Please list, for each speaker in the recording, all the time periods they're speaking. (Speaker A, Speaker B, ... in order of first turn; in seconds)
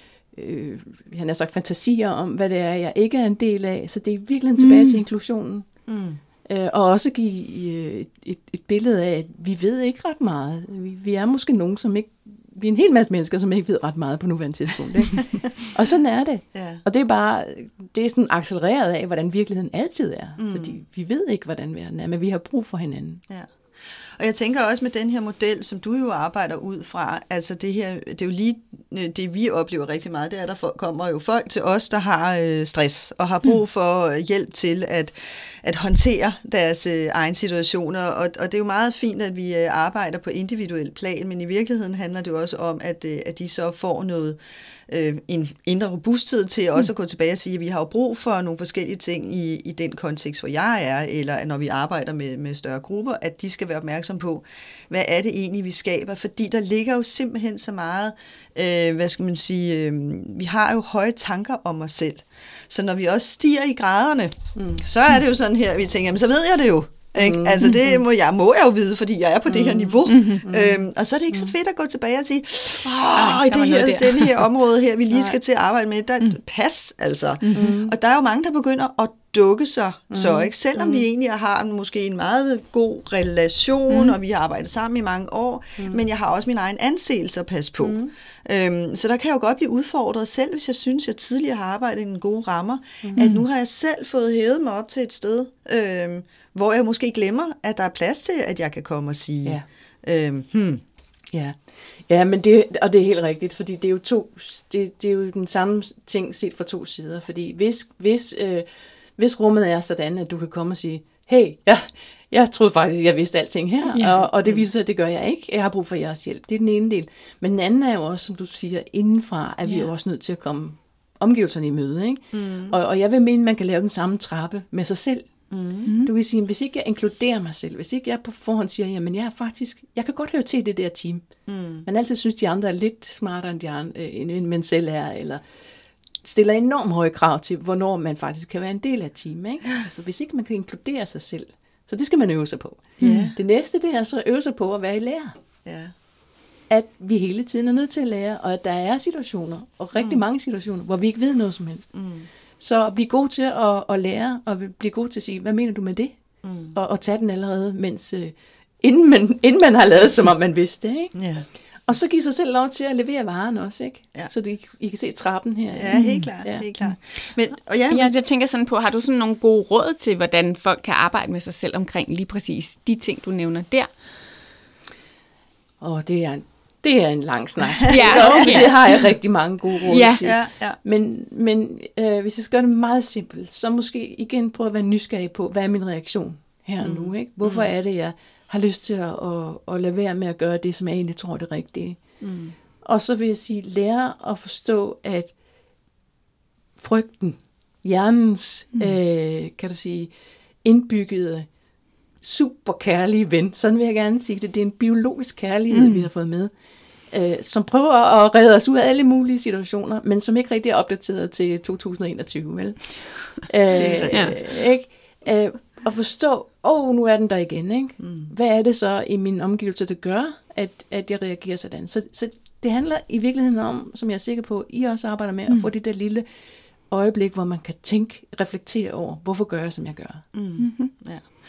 Speaker A: 0.3-5.7, 6.5-23.2, 64.5-64.8, 67.2-67.9, 69.5-70.8, 75.1-75.4, 77.5-77.9, 80.1-80.9, 87.8-88.1, 93.0-93.3, 101.3-125.3, 126.0-131.2, 131.9-135.4, 136.2-145.3, 146.7-151.9, 152.6-156.2, 156.7-161.1, 161.9-166.7, 175.8-192.0, 192.8-195.3, 196.8-200.1, 200.6-201.5, 202.2-206.5, 207.1-226.3, 226.9-230.2
Speaker B: 4.6-5.0, 70.1-70.5, 73.0-74.5, 77.4-77.7, 83.9-84.2, 113.9-114.2, 125.9-126.1, 143.0-143.3, 165.9-166.3, 167.9-173.9, 177.9-179.0, 179.9-180.2, 205.7-206.1, 214.1-214.4, 230.6-230.9
Speaker C: 5.9-6.2, 16.5-16.8, 20.4-20.8, 24.2-44.4, 44.9-100.8, 122.3-122.8, 125.5-125.9, 131.5-131.9, 143.0-143.4, 145.7-145.9, 150.0-150.2, 151.9-152.3, 156.4-156.8, 161.1-161.5, 165.7-168.1, 177.9-178.8, 180.2-180.8, 186.8-187.7, 192.2-192.6, 213.7-214.5, 218.0-218.3, 230.3-231.3